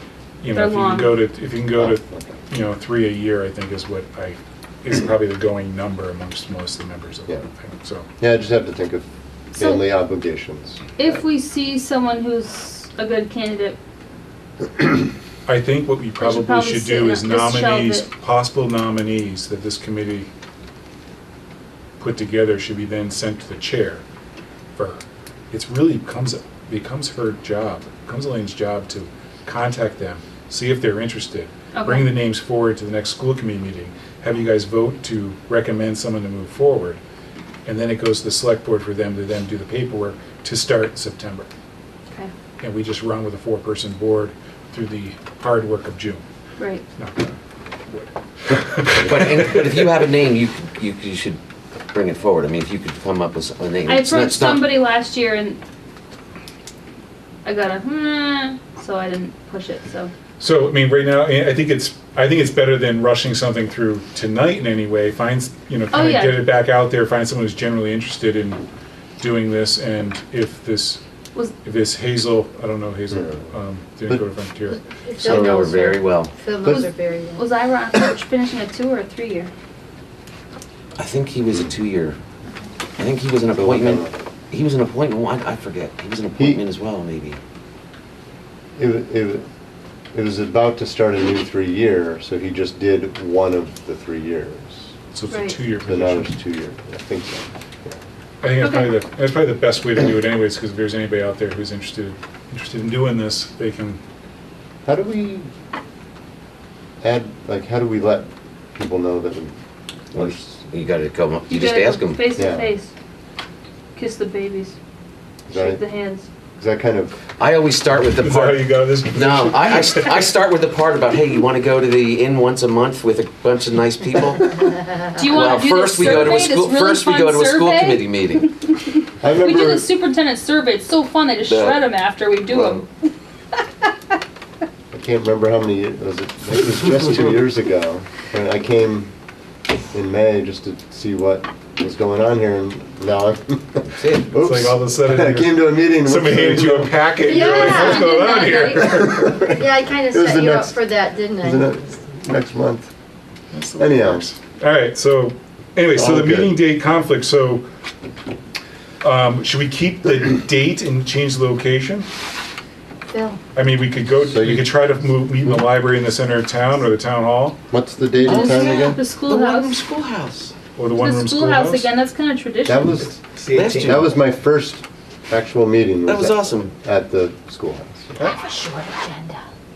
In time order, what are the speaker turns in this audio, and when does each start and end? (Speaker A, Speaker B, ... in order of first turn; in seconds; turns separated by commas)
Speaker A: 0.4-8.1, Speaker B: 0.5-1.2, Speaker C: 1.7-2.4, Speaker C: 8.2-11.2, Speaker B: 9.6-9.8, Speaker B: 11.0-13.8, Speaker A: 15.4-20.3, Speaker B: 16.2-18.1, Speaker A: 22.0-24.0, Speaker A: 24.8-37.0, Speaker B: 31.7-32.1, Speaker A: 37.6-41.5, Speaker A: 42.6-46.2, Speaker B: 46.6-46.8, Speaker A: 47.0-47.3, Speaker A: 47.9-49.9, Speaker D: 49.0-51.4, Speaker D: 51.9-54.7, Speaker B: 53.9-55.6, Speaker B: 57.4-60.1, Speaker A: 60.4-68.6, Speaker B: 65.9-66.5, Speaker A: 69.2-71.0, Speaker A: 71.6-74.8, Speaker C: 73.1-73.5, Speaker E: 75.0-77.5, Speaker B: 75.1-76.0, Speaker D: 75.2-76.3, Speaker B: 76.6-79.5, Speaker D: 81.0-82.2, Speaker D: 83.0-87.4, Speaker C: 83.5-84.1, Speaker C: 86.3-86.6, Speaker C: 88.8-89.4, Speaker C: 90.1-94.9, Speaker A: 95.1-96.3, Speaker B: 95.3-95.6, Speaker C: 95.8-98.0, Speaker A: 98.4-104.0, Speaker B: 98.6-99.0, Speaker C: 104.8-105.5, Speaker C: 107.0-109.5, Speaker C: 110.1-110.6, Speaker D: 110.1-112.3, Speaker B: 111.5-112.9, Speaker C: 112.3-112.7, Speaker B: 113.9-114.8, Speaker C: 115.5-115.8, Speaker B: 115.5-116.3, Speaker C: 116.6-117.3, Speaker D: 117.4-128.5, Speaker A: 118.2-120.2, Speaker B: 125.1-133.6, Speaker C: 129.2-129.9, Speaker D: 131.5-131.9, Speaker D: 132.5-132.8, Speaker C: 134.9-139.1, Speaker C: 139.9-148.1, Speaker D: 143.8-144.3, Speaker A: 144.3-149.2, Speaker E: 147.2-148.9, Speaker C: 148.6-150.9, Speaker E: 149.5-151.7, Speaker C: 151.4-152.9, Speaker A: 153.5-157.6, Speaker C: 153.8-154.3, Speaker C: 155.9-156.6, Speaker A: 159.0-162.1, Speaker E: 163.1-163.4, Speaker A: 163.5-167.6, Speaker C: 164.1-164.8, Speaker C: 165.3-165.6, Speaker C: 167.7-169.0, Speaker D: 168.2-170.6, Speaker B: 168.3-169.8, Speaker A: 170.8-171.9, Speaker B: 170.9-173.0, Speaker C: 172.6-173.1, Speaker D: 173.4-174.1, Speaker C: 173.7-178.1, Speaker D: 176.1-176.7, Speaker E: 178.2-179.4